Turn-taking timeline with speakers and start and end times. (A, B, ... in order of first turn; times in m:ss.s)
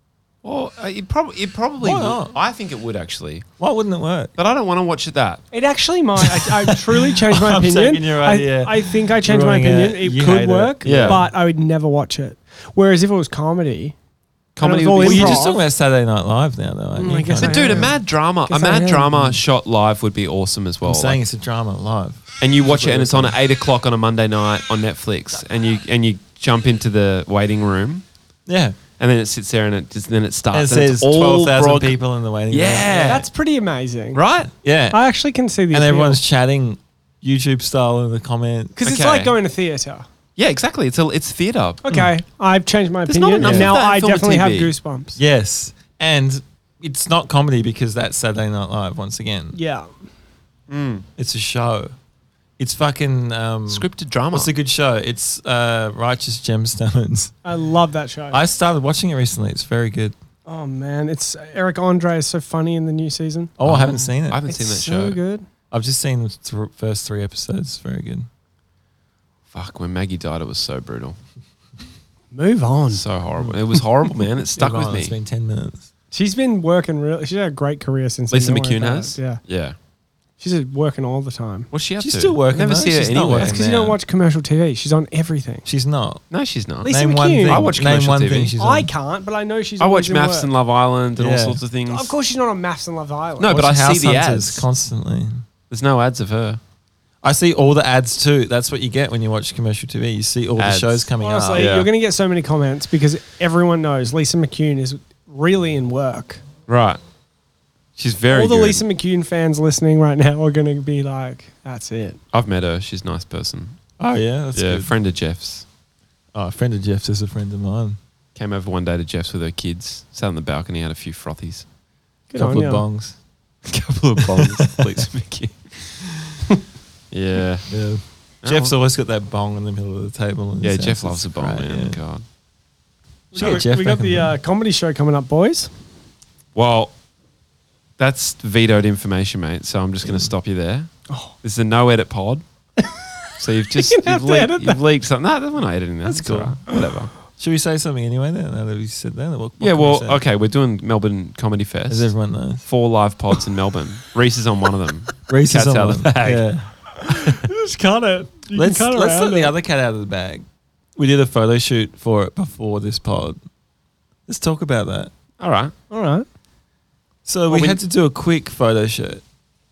0:00.4-0:03.5 A
0:01.8-0:02.4 B
0:03.6-0:04.3 B
0:04.4-0:05.4 A
0:05.5-0:14.0 C
0:06.3-0:11.3 B
0:10.8-0:11.2 A
0:14.6-0:15.4 A
0:14.6-0:15.6 C
0:15.0-0:17.9 B
0:17.0-0:19.2 C
0:17.4-0:21.2 A
0:20.8-0:23.4 B
0:22.4-0:28.0 A
0:28.5-0:28.8 B
0:29.0-0:32.0 A
0:30.5-0:33.3 B
0:32.5-0:33.2 A
0:33.0-0:34.2 C
0:34.1-0:34.5 A
0:34.6-0:35.0 B
0:34.9-0:36.2 C
0:35.7-0:38.8 B
0:38.8-0:40.1 C
0:38.8-0:39.3 A
0:40.4-0:41.8 A
0:41.8-0:45.2 C
0:43.1-0:44.7 A
0:43.4-0:43.8 B
0:45.2-0:49.6 B
0:49.5-0:49.9 C
0:50.7-0:51.0 A
0:51.2-0:51.9 B
0:52.6-0:57.4 B
0:53.7-0:54.5 A
0:57.4-0:58.4 C
0:58.3-1:00.2 B
1:00.5-1:03.6 C
1:03.6-1:04.4 B
1:03.6-1:05.2 A
1:04.5-1:05.5 C
1:05.7-1:08.3 B
1:09.5-1:11.2 A
1:12.3-1:13.0 C
1:12.9-1:15.2 A
1:13.4-1:13.8 B
1:14.5-1:15.9 B
1:16.1-1:19.4 C
1:18.3-1:19.8 A
1:20.4-1:21.7 C
1:21.7-1:23.6 A
1:22.0-1:24.0 B
1:23.4-1:25.7 C
1:25.7-1:26.2 B
1:26.3-1:26.9 A
1:26.8-1:27.7 C
1:26.8-1:28.9 B
1:27.4-1:28.5 A
1:28.6-1:30.5 C
1:29.8-1:32.1 A
1:31.2-1:31.6 B
1:31.9-1:33.6 C
1:33.4-1:34.6 A
1:33.5-1:35.4 B
1:35.7-1:36.6 A
1:37.2-1:41.8 B
1:40.6-1:41.9 A
1:41.2-1:46.4 C
1:46.7-1:47.0 A
1:48.0-1:48.8 A
1:48.3-1:52.2 C
1:52.3-1:53.8 A
1:54.0-1:54.9 B
1:54.5-1:55.6 A
1:56.3-1:58.0 B
1:58.4-2:01.7 A
2:02.3-2:02.8 C
2:02.4-2:03.2 B
2:03.7-2:05.9 A
2:04.3-2:04.9 B
2:07.1-2:07.7 A
2:07.7-2:12.0 B
2:08.4-2:08.7 A
2:10.6-2:12.2 A
2:13.3-2:15.7 C
2:13.3-2:14.4 B
2:16.6-2:16.9 A
2:18.0-2:20.9 A
2:20.0-2:20.3 B
2:21.1-2:21.3 C
2:21.4-2:22.4 A
2:22.8-2:24.8 C
2:23.4-2:27.1 A
2:26.0-2:26.8 B
2:27.3-2:30.2 B
2:29.6-2:36.5 A
2:31.9-2:32.6 B
2:35.3-2:36.7 B
2:37.0-2:39.5 C
2:38.5-2:40.4 B
2:41.0-2:43.4 B
2:44.3-2:45.1 B
2:45.4-2:45.7 A
2:45.9-2:46.2 C
2:47.3-2:49.2 B
2:47.5-2:47.8 A